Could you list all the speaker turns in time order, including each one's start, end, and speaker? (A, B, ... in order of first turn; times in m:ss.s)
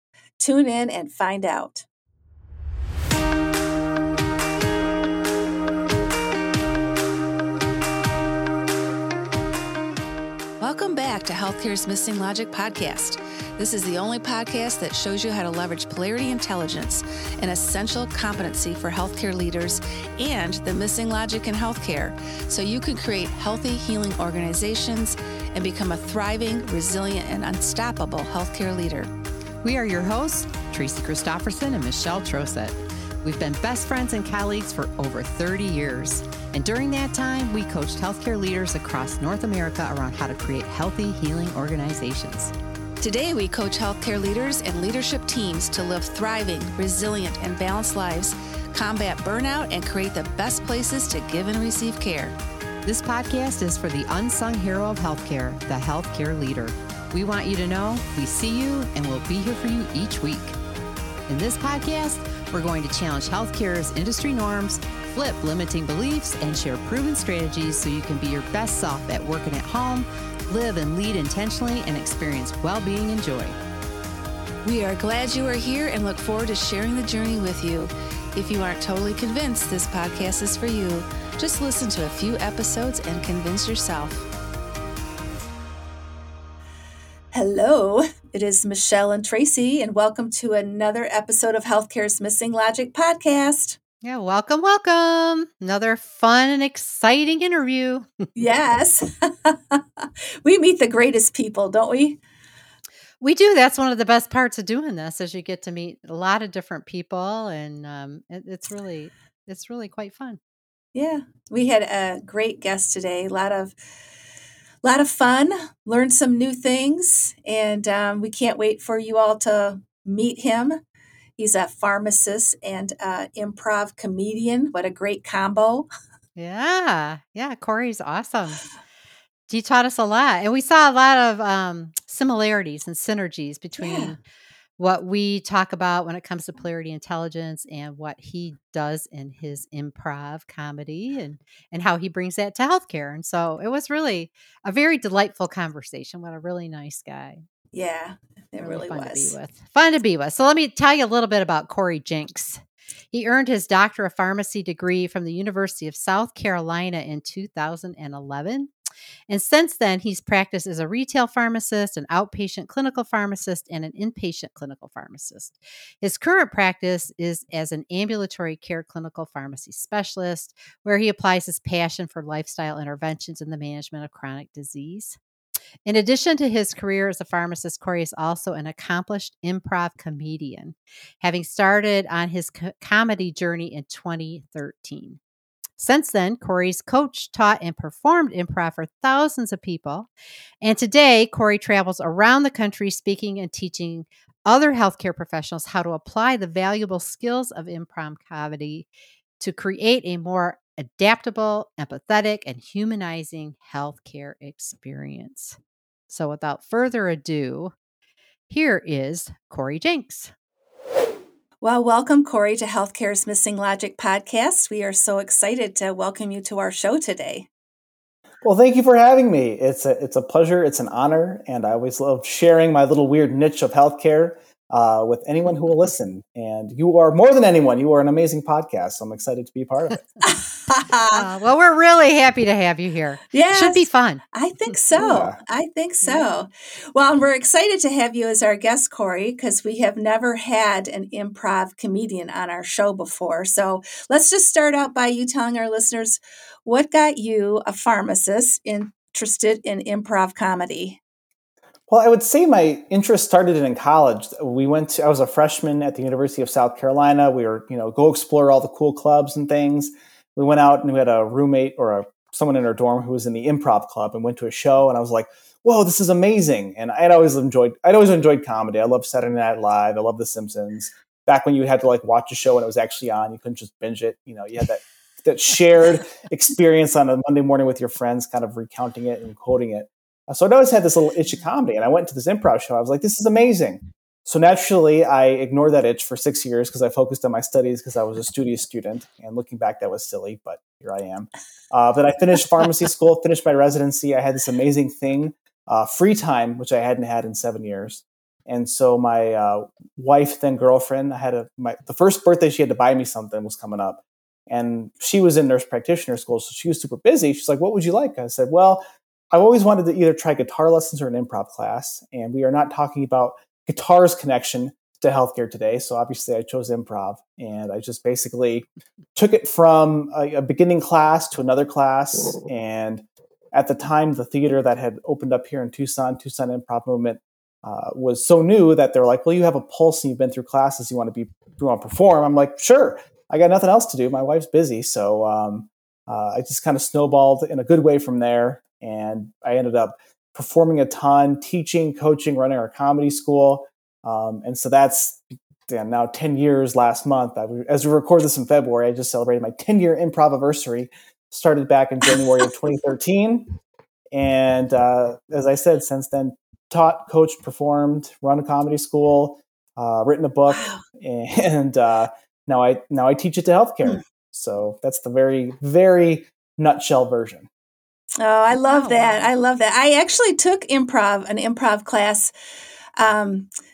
0:00.4-0:01.9 A
0:10.6-0:29.1 A
0:29.6-0:42.5 B
0:43.0-0:52.3 A
0:52.8-1:00.6 B
1:01.3-1:13.6 B
1:14.6-1:24.2 A
1:27.3-1:33.8 A
1:34.0-1:38.3 B
1:38.4-1:42.2 A
1:43.2-1:50.4 B
1:50.9-1:53.8 A
1:54.8-2:00.8 A
2:01.4-2:05.9 A
2:06.4-2:08.7 B
2:09.5-2:14.2 B
2:13.8-2:14.1 A
2:14.8-2:27.4 B
2:27.7-2:29.3 A
2:28.6-2:32.6 B
2:33.1-2:38.7 B
2:39.3-2:55.2 B
2:55.9-3:05.2 B
3:05.8-3:10.1 B
3:10.6-3:18.9 B
3:19.4-3:25.6 B
3:26.1-3:27.7 B
3:28.5-3:30.3 B
3:31.6-3:37.5 A
3:38.4-3:50.1 C
3:50.2-3:51.2 A
3:51.1-3:54.2 B
3:53.3-4:11.0 A
3:55.0-3:55.4 C
4:11.9-5:53.5 C
5:54.1-6:07.5 C
6:00.5-6:00.8 A
6:08.2-6:12.3 A
6:08.6-6:09.3 B
6:13.0-6:13.5 A